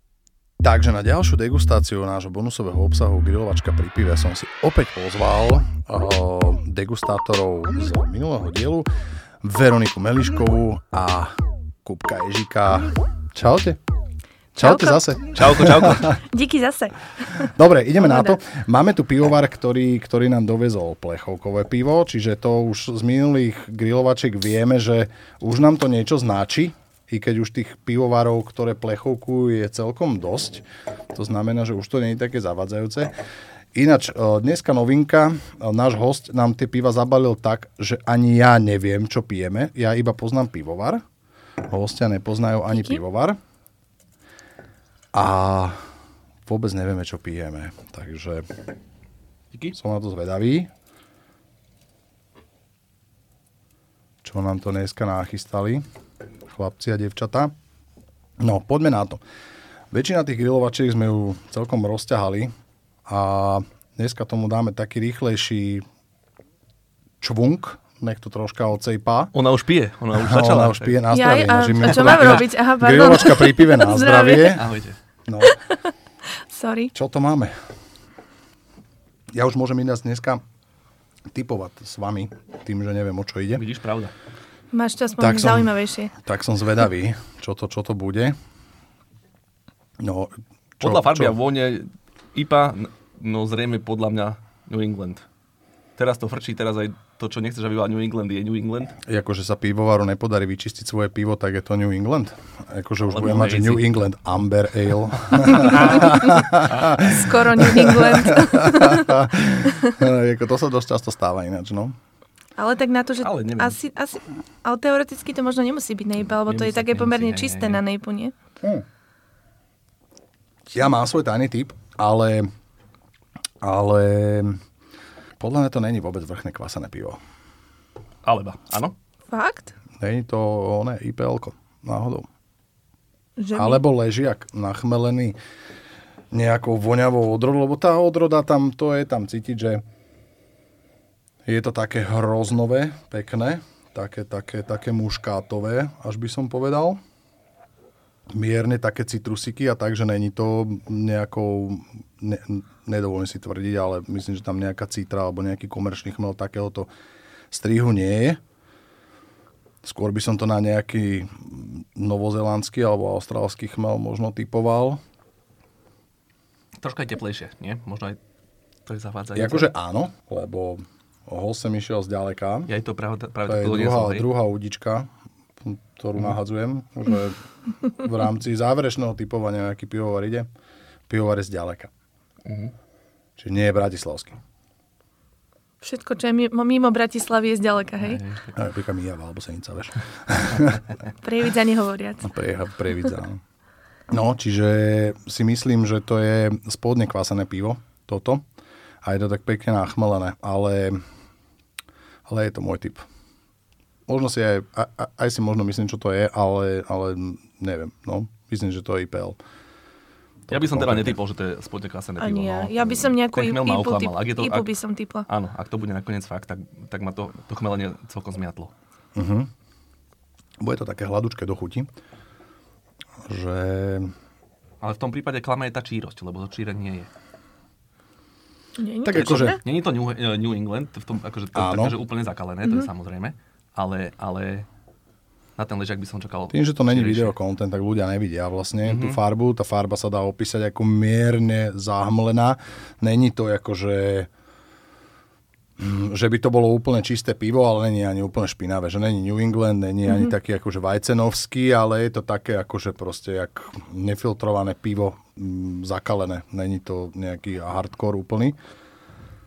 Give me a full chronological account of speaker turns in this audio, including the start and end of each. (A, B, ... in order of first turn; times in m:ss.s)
0:00.6-0:08.9 A
0:09.4-0:13.8 A
0:14.6-0:16.2 A
0:14.6-0:15.0 B
0:15.4-0:16.2 C
0:16.2-0:18.4 B
0:17.3-0:33.1 A
0:33.8-0:41.0 A
0:41.7-0:43.4 A
0:45.1-0:45.9 A
0:46.5-0:48.5 A
0:49.7-0:50.7 A
0:54.2-0:55.8 A
0:56.5-0:57.5 A
0:58.4-0:59.2 A
0:59.9-1:02.5 A
1:03.1-1:05.8 A
1:07.2-1:09.3 A
1:09.3-1:11.0 C
1:10.1-1:14.7 A
1:11.1-1:14.6 B
1:11.8-1:12.4 C
1:14.5-1:15.0 C
1:15.3-1:15.6 A
1:15.4-1:15.9 B
1:16.4-1:16.9 B
1:16.9-1:17.5 A
1:19.3-1:20.4 A
1:21.3-1:23.6 A
1:23.6-1:24.1 C
1:24.7-1:26.1 B
1:25.2-1:28.4 A
1:30.0-1:31.4 A
1:30.8-1:35.3 C
1:36.0-1:39.0 C
1:39.0-1:52.0 A
1:43.1-1:44.0 C
1:45.3-1:47.0 C
1:47.0-1:49.1 B
1:49.7-1:49.9 B
1:52.6-1:58.3 B
1:53.2-1:53.8 C
1:56.4-1:57.8 C
2:00.7-2:02.5 A
2:03.6-2:04.6 A
2:05.4-2:07.2 A
2:08.2-2:09.0 C
2:09.3-2:09.7 B
2:10.0-2:12.3 A
2:13.4-2:13.8 B
2:13.6-2:15.4 A
2:16.3-2:19.8 A
2:21.5-2:27.0 A
2:28.3-2:36.9 A
2:37.5-2:38.4 A
2:39.8-2:45.0 A
2:46.8-2:48.2 C
2:48.8-2:49.7 C
2:49.3-2:52.7 A
2:52.7-2:54.3 C
2:53.4-2:55.1 A
2:55.6-3:00.5 A
3:01.1-3:01.9 A
3:02.4-3:02.7 C
3:03.4-3:04.4 A
3:05.8-3:08.2 B
3:08.0-3:08.6 C
3:08.6-3:11.0 A
3:11.2-3:12.3 B
3:12.2-3:13.4 A
3:14.1-3:18.4 A
3:19.0-3:21.0 A
3:22.3-3:23.0 A
3:24.1-3:29.4 A
3:30.5-3:31.2 A
3:30.5-3:34.7 C
3:32.2-3:35.3 B
3:35.3-3:38.7 C
3:39.2-3:39.5 A
3:40.6-3:41.9 A
3:43.3-3:44.1 A
3:44.8-3:47.1 C
3:48.8-3:49.6 B
3:49.0-3:49.6 A
3:49.1-3:54.7 C
3:51.6-3:51.9 A
3:55.6-3:57.3 C
3:56.5-4:04.3 A
3:58.8-3:59.2 C
4:05.8-4:18.6 A